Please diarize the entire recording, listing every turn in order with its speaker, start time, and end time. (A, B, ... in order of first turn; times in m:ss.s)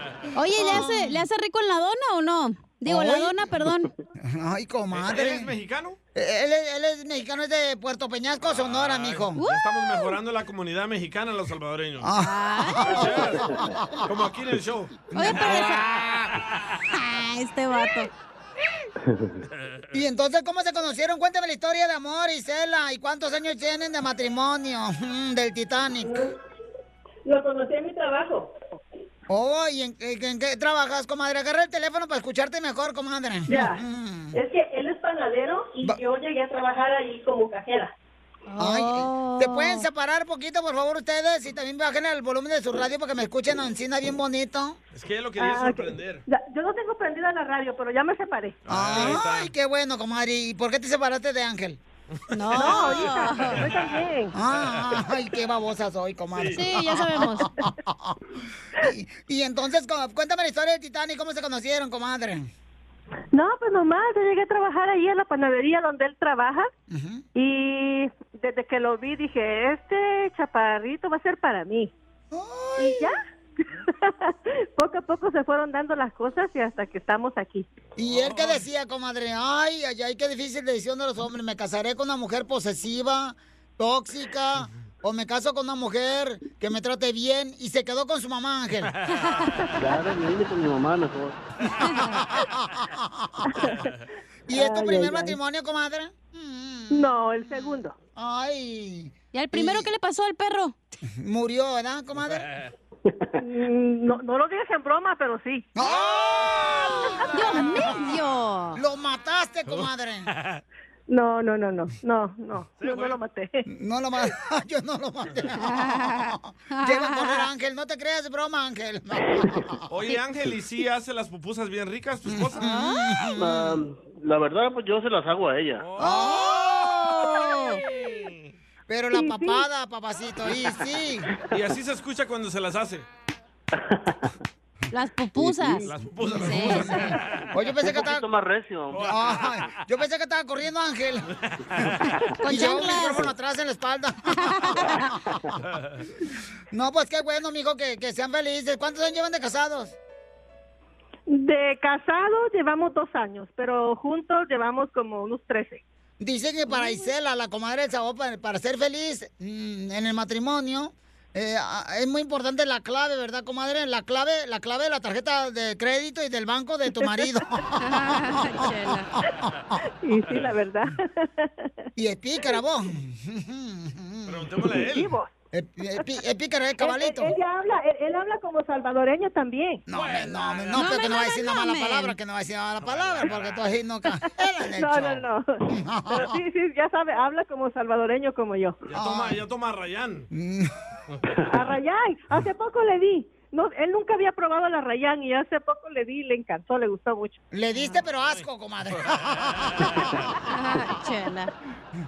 0:00.3-0:03.9 A
0:00.6-0:01.2 B
0:02.8-0:03.4 B
0:04.2-0:05.5 B
0:04.9-0:06.0 C
0:06.1-0:09.4 B
0:08.4-0:12.1 C
0:09.4-0:10.2 A
0:12.0-0:14.0 B
0:12.2-0:13.1 A
0:12.8-0:13.5 C
0:14.0-0:15.5 C
0:15.1-0:16.2 B
0:15.1-0:16.1 A
0:16.9-0:18.1 A
0:19.9-0:26.2 B
0:26.0-0:26.3 D
0:27.2-0:28.6 D
0:29.3-0:34.4 B
0:33.5-0:33.8 D
0:34.3-0:37.9 D
0:38.5-0:39.9 A
0:38.6-0:44.8 B
0:44.9-0:46.2 C
0:45.4-0:48.6 D
0:48.6-0:49.5 C
0:48.7-0:51.8 B
0:52.3-0:53.6 A
0:52.5-0:54.3 D
0:54.3-0:58.2 B
0:54.6-0:55.0 C
0:56.5-0:57.5 A
0:58.8-1:02.5 B
1:03.3-1:06.7 D
1:06.9-1:07.2 B
1:07.3-1:11.9 D
1:12.3-1:13.1 B
1:12.8-1:13.2 D
1:14.0-1:17.7 D
1:18.0-1:28.9 B
1:18.0-1:18.6 C
1:29.1-1:29.5 C
1:29.8-1:31.4 E
1:31.8-1:32.1 A
1:32.1-1:33.3 B
1:33.6-1:33.9 D
1:34.5-1:37.1 B
1:34.5-1:35.4 D
1:36.9-1:38.0 D
1:38.2-1:39.9 B
1:39.3-1:40.7 A
1:41.0-1:42.4 B
1:42.2-1:42.7 C
1:43.4-1:45.7 D
1:45.8-1:48.1 B
1:47.3-1:48.8 A
1:48.7-1:50.3 B
1:49.7-1:50.6 C
1:51.1-1:53.6 D
1:52.8-1:53.2 C
1:53.7-1:59.8 B
1:55.6-1:57.5 A
1:59.9-2:02.7 C
2:02.3-2:03.8 B
2:02.6-2:03.0 A
2:03.4-2:05.8 E
2:05.8-2:08.5 C
2:06.0-2:07.4 B
2:06.1-2:07.8 A
2:08.9-2:11.3 B
2:09.1-2:09.6 D
2:11.5-2:13.1 C
2:14.9-2:17.0 A
2:15.5-2:17.6 C
2:16.3-2:18.2 B
2:17.8-2:19.1 E
2:18.9-2:19.8 C
2:19.1-2:21.3 B
2:21.4-2:22.0 C
2:22.4-2:23.3 A
2:22.4-2:25.6 B
2:24.4-2:25.1 A
2:25.7-2:26.0 C
2:26.7-2:30.0 B
2:31.3-2:35.8 D
2:36.2-2:48.7 B
2:47.8-2:49.1 A
2:50.0-2:51.7 D
2:52.0-2:54.5 B
2:54.3-2:55.2 C
2:54.9-2:55.3 D
2:55.5-2:57.3 B
2:56.8-2:59.8 D
2:59.9-3:06.4 B
2:59.9-3:01.0 C
3:00.7-3:02.2 A
3:02.8-3:03.7 C
3:04.7-3:08.8 D
3:08.9-3:10.3 C
3:08.9-3:09.4 B
3:10.3-3:10.7 B
3:11.5-3:17.4 D
3:17.5-3:20.1 B
3:19.0-3:20.1 C
3:20.5-3:21.5 A